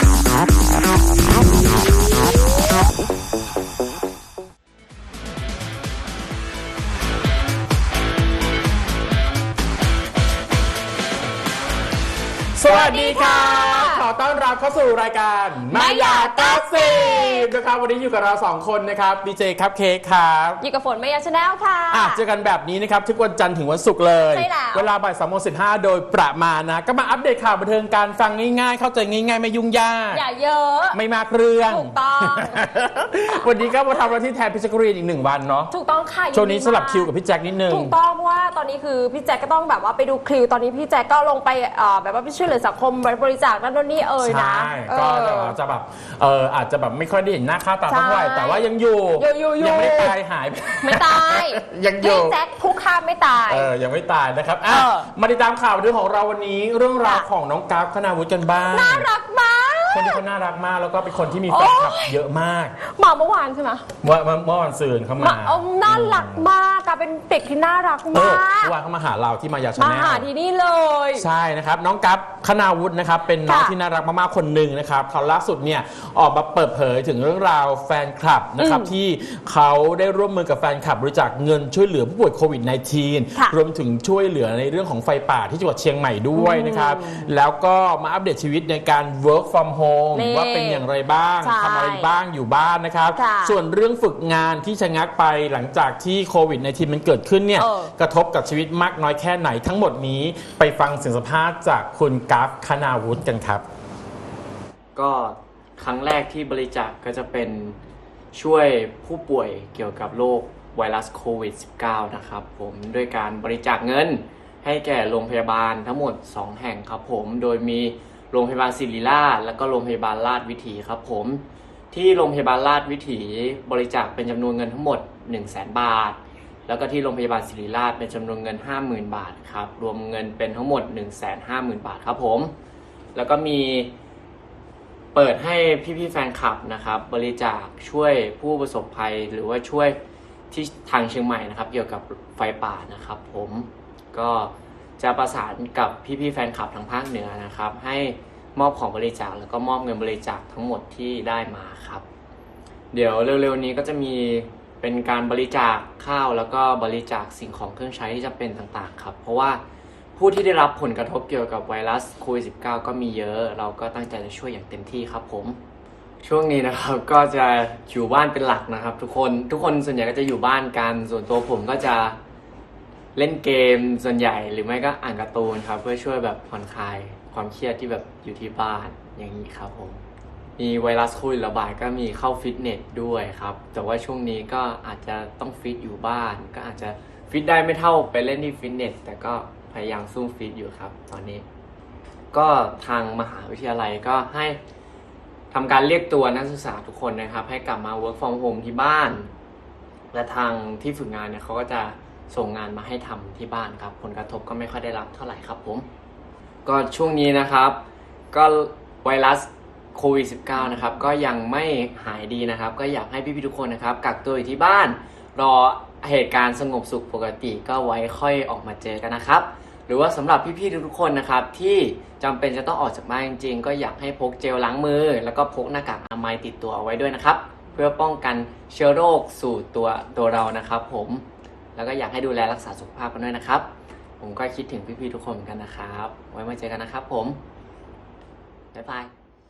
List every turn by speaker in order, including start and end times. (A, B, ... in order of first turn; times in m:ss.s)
0:12.6-0:20.6 A
0:12.6-0:14.0 B
0:15.7-0:17.4 B
0:20.6-0:22.2 B
0:21.9-0:30.2 A
0:24.3-0:24.9 B
0:30.1-0:31.0 B
0:30.9-0:35.7 A
0:31.7-0:32.6 B
0:35.7-0:37.1 B
0:36.3-0:37.9 A
0:37.7-0:45.6 B
0:44.2-0:52.4 A
0:47.9-0:48.6 B
0:49.2-0:50.1 B
0:50.7-0:53.7 B
0:53.5-0:59.1 A
0:54.7-0:55.1 B
0:58.6-1:00.2 B
0:59.9-1:02.7 A
1:01.5-1:02.2 B
1:02.8-1:03.8 B
1:04.0-1:06.4 A
1:05.2-1:08.7 B
1:08.1-1:10.3 A
1:09.8-1:11.2 B
1:11.2-1:43.6 A
1:13.4-1:13.7 B
1:18.6-1:18.9 B
1:26.3-1:27.3 B
1:30.1-1:30.8 B
1:31.4-1:32.1 B
1:33.1-1:33.6 B
1:37.6-1:37.9 B
1:44.9-1:47.8 C
1:48.3-2:12.5 C
2:13.1-2:13.9 C
2:15.1-2:20.0 C
2:20.5-2:32.0 C
2:32.9-2:39.6 C
2:40.2-2:45.6 C
2:46.2-2:52.2 C
2:53.1-3:00.0 C
3:00.6-3:11.4 C
3:12.3-3:14.6 C
3:15.5-3:19.3 C
3:20.1-3:25.8 C
3:26.6-3:27.8 C
3:28.3-3:51.2 C
3:51.7-3:53.7 C
3:54.2-3:57.4 C
3:58.7-3:59.1 C